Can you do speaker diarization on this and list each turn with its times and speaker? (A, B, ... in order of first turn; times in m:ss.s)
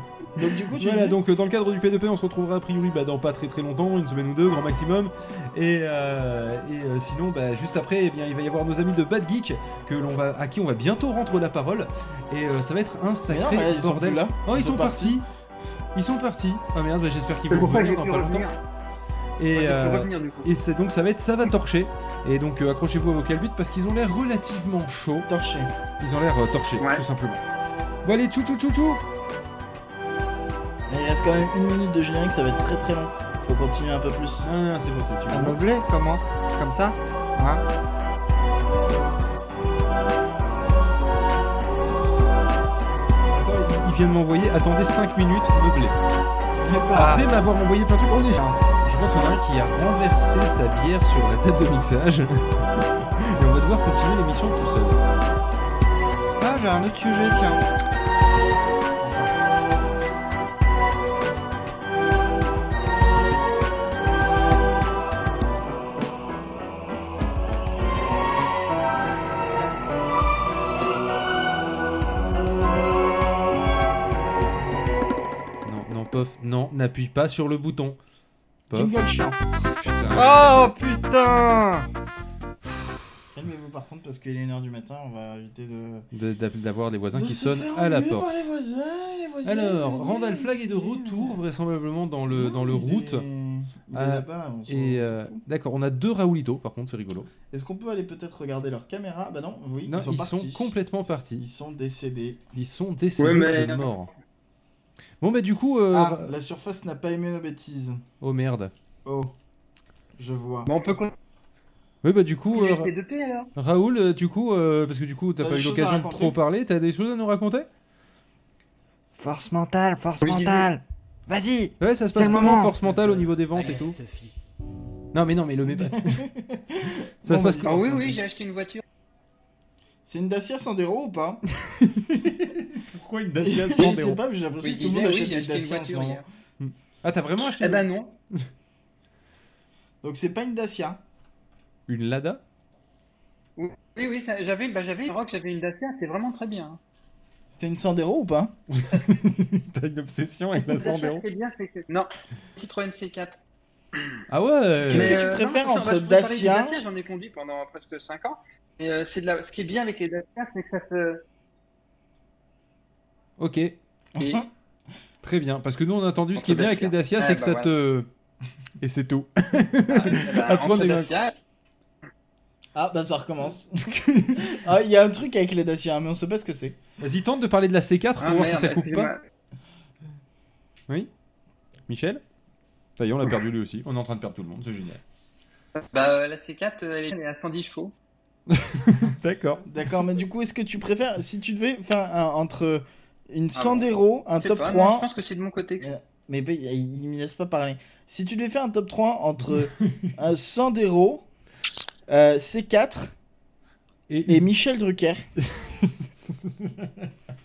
0:00.4-0:01.2 A
0:00.7-0:15.2 B
0:13.3-0:15.2 A
0:16.0-0:18.5 B
0:17.5-0:18.6 C
0:19.4-0:25.3 B
0:19.5-0:20.5 C
0:25.3-0:25.7 A
0:26.0-0:27.4 B
0:26.8-0:27.0 C
0:28.0-0:29.0 B
0:30.9-0:34.5 A
0:34.4-0:35.6 B
0:35.3-0:37.6 D
0:43.2-0:46.0 B
0:46.6-0:47.3 A
0:46.9-0:55.0 B
0:56.4-0:57.6 D
0:59.0-0:59.3 D
1:15.6-1:18.0 B
1:18.7-1:19.0 B
1:18.7-1:19.4 A
1:19.8-1:20.7 B
1:20.1-1:21.9 D
1:23.3-1:26.1 A
1:26.1-1:28.3 B
1:27.2-1:31.4 A
1:29.4-1:33.3 B
1:32.3-1:35.4 A
1:33.9-1:37.3 B
1:37.5-1:40.7 A
1:39.9-1:41.4 B
1:41.4-1:42.4 A
1:42.6-1:44.1 B
1:43.2-1:44.1 C
1:45.2-1:46.3 B
1:45.9-1:48.0 A
1:48.2-1:48.7 B
1:49.0-1:49.3 A
1:50.2-1:51.0 A
1:50.7-1:51.1 C
1:52.0-1:52.9 B
1:52.5-1:53.5 C
1:53.6-1:57.7 B
1:55.4-1:56.4 A
1:59.2-2:02.8 D
2:00.2-2:00.7 C
2:01.8-2:04.0 B
2:05.1-2:06.3 B
2:05.7-2:08.2 A
2:07.2-2:07.8 B
2:07.6-2:08.8 C
2:10.0-2:11.4 A
2:12.8-2:14.2 B
2:13.4-2:16.2 A
2:14.6-2:16.2 C
2:16.6-2:17.9 B
2:17.6-2:18.1 C
2:20.0-2:21.0 A
2:21.9-2:22.4 B
2:23.6-2:26.8 C
2:27.5-2:28.6 A
2:28.7-2:31.2 B
2:30.6-2:33.4 C
2:34.3-2:35.2 B
2:34.9-2:36.8 A
2:34.9-2:41.2 C
2:43.4-2:43.8 B
2:44.2-2:44.5 A
2:45.2-2:48.1 B
2:46.4-2:47.7 C
2:48.8-2:51.1 B
2:49.9-2:51.4 C
2:52.8-2:56.8 A
2:57.0-2:59.1 B
2:58.2-2:59.2 C
3:01.9-3:02.2 B
3:03.0-3:05.0 B
3:05.9-3:07.9 C
3:08.5-3:09.6 B
3:09.7-3:15.1 A
3:13.6-3:13.9 C
3:14.4-3:15.9 C
3:15.8-3:21.2 A
3:22.1-3:23.1 A
3:24.1-3:24.5 B
3:24.3-3:25.3 A
3:25.4-3:27.1 B